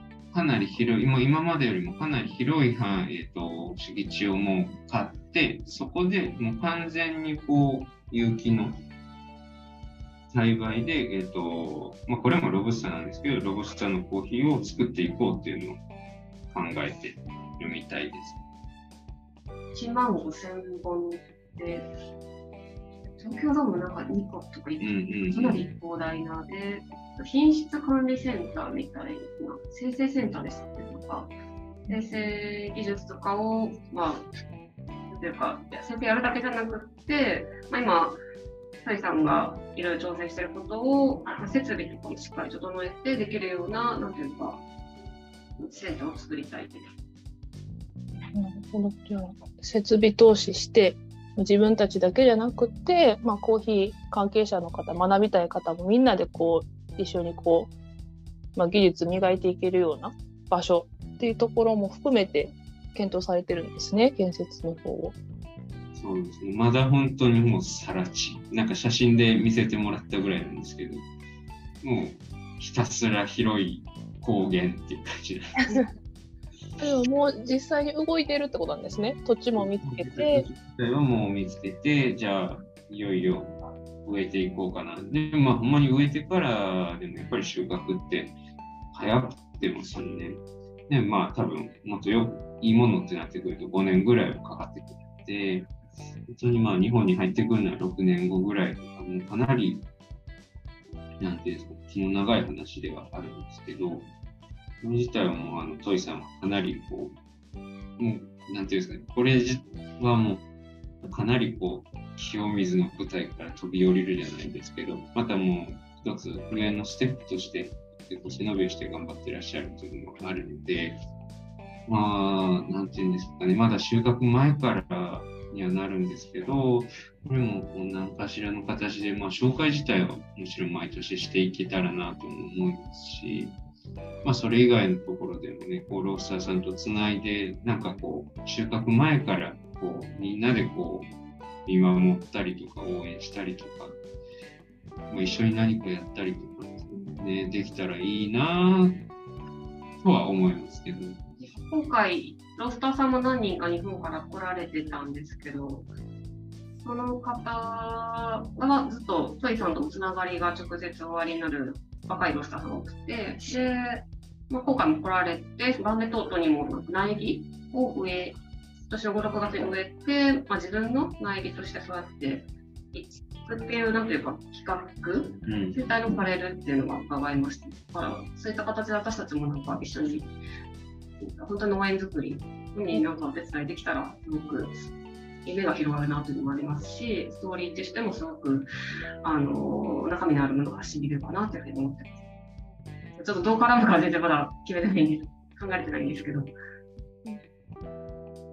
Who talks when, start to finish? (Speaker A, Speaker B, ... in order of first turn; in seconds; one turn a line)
Speaker A: 0.3-8.8
Speaker A: 10.3-15.8
Speaker A: 16.5-18.4
Speaker B: 19.7-21.9
Speaker B: 23.1-31.3
Speaker A: 24.8-25.6
Speaker C: 31.9-32.2
Speaker B: 31.9-34.3
Speaker B: 35.1-38.2
Speaker B: 38.8-44.6
Speaker B: 45.6-46.9
Speaker C: 48.3-57.7
Speaker C: 58.5-65.2
Speaker A: 66.0-71.0
Speaker A: 71.8-75.8
Speaker C: 76.8-80.5
Speaker A: 79.6-88.3
Speaker A: 88.9-95.7
Speaker A: 96.3-99.9
Speaker A: 101.2-104.1
Speaker A: 104.8-107.2
Speaker A: 108.0-110.4
Speaker A: 111.0-121.0
Speaker A: 121.9-133.6
Speaker A: 134.2-141.1
Speaker A: 141.7-144.0
Speaker A: 145.1-149.0
Speaker A: 150.0-151.2
Speaker B: 151.4-155.9
Speaker B: 156.8-168.4
Speaker B: 168.9-180.3
Speaker A: 175.5-175.8
Speaker B: 181.2-184.9
Speaker B: 185.4-188.7
Speaker B: 189.2-192.2
Speaker B: 193.2-196.5